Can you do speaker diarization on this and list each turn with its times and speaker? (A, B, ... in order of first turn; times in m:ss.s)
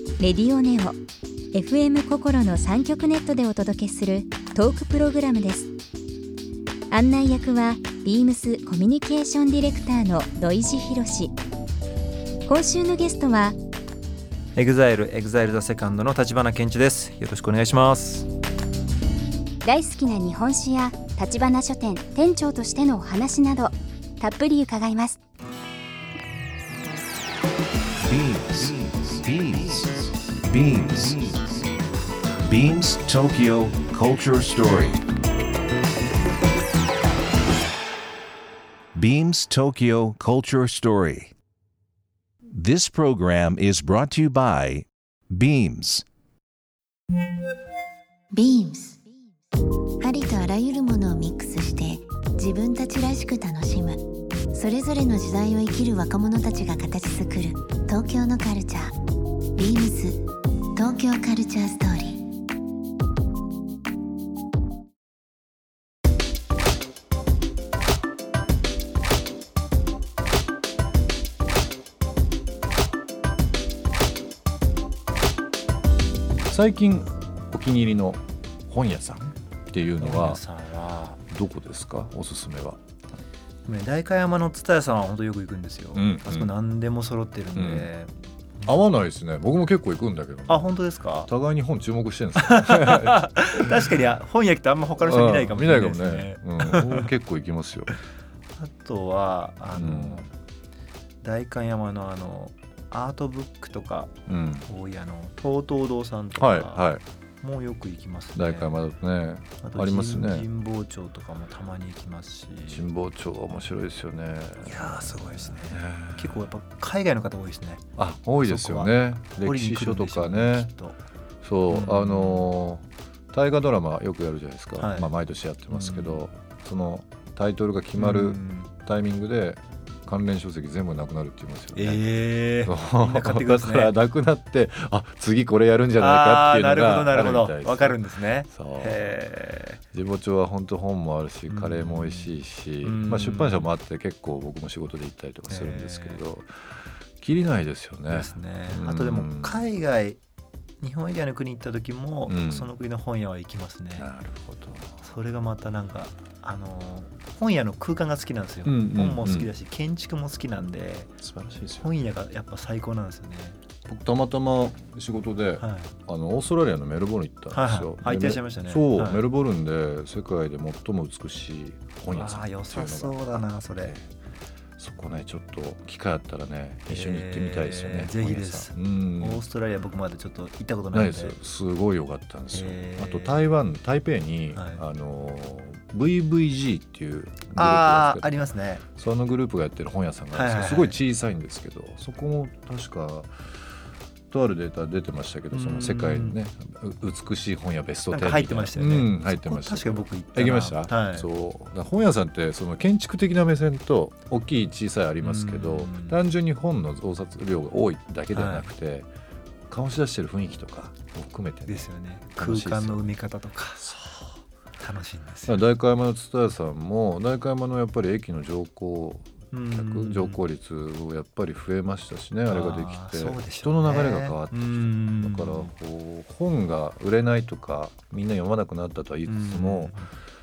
0:00.2-0:01.0 A
0:01.5-0:05.7 A
0:06.9-0:11.3 A
0:12.5-0:13.6 A
0:14.6-0:18.3 B
0:19.6-0:25.2 A
0:28.0-0:31.6 C
0:32.4-0:35.0 C
0:39.0-0:41.3 C
0:42.5-0:46.0 C
0:48.3-0:49.0 D
0:50.0-0:59.0 D
0:59.6-1:00.2 D
1:00.8-1:02.2 D
1:16.5-1:20.4 E
1:20.0-1:21.2 B
1:21.3-1:22.8 E
1:23.6-1:28.8 B
1:26.0-1:26.5 E
1:27.6-1:27.9 E
1:28.6-1:30.7 E
1:30.5-1:31.3 B
1:31.3-1:33.8 E
1:32.4-1:37.1 B
1:35.0-1:37.9 E
1:38.6-1:40.3 B
1:39.8-1:40.3 E
1:41.2-1:44.1 B
1:44.3-1:44.7 E
1:44.7-1:48.8 B
1:46.4-1:47.0 E
1:48.4-1:50.5 E
1:49.6-1:52.9 B
1:52.7-1:56.5 E
1:54.6-1:57.8 B
1:58.0-2:00.7 E
1:58.4-2:01.0 B
2:01.4-2:19.2 E
2:01.7-2:02.5 B
2:04.8-2:05.1 B
2:05.7-2:06.3 B
2:08.0-2:08.7 B
2:11.7-2:13.9 B
2:16.0-2:19.8 B
2:19.9-2:29.6 E
2:21.5-2:23.7 B
2:25.4-2:26.2 B
2:28.1-2:30.2 B
2:30.8-2:34.1 B
2:32.3-2:32.7 E
2:34.0-2:35.1 E
2:35.0-2:41.2 B
2:38.6-2:39.5 E
2:41.2-2:41.9 E
2:41.8-2:43.6 B
2:43.9-2:54.1 E
2:45.6-2:45.9 B
2:47.5-2:49.2 B
2:52.1-2:54.0 B
2:54.8-2:59.4 E
2:56.9-3:01.4 B
3:00.9-3:08.4 E
3:02.5-3:03.5 B
3:04.5-3:04.8 B
3:07.5-3:08.9 B
3:09.0-3:13.5 E
3:10.3-3:11.0 B
3:14.3-3:29.1 E
3:15.5-3:16.4 B
3:18.1-3:21.3 B
3:25.2-3:26.2 B
3:28.3-3:28.7 B
3:29.7-3:33.0 E
3:31.7-3:34.0 B
3:34.8-3:35.6 B
3:35.5-3:50.0 E
3:39.5-3:40.4 B
3:42.5-3:45.7 B
3:49.3-3:50.1 B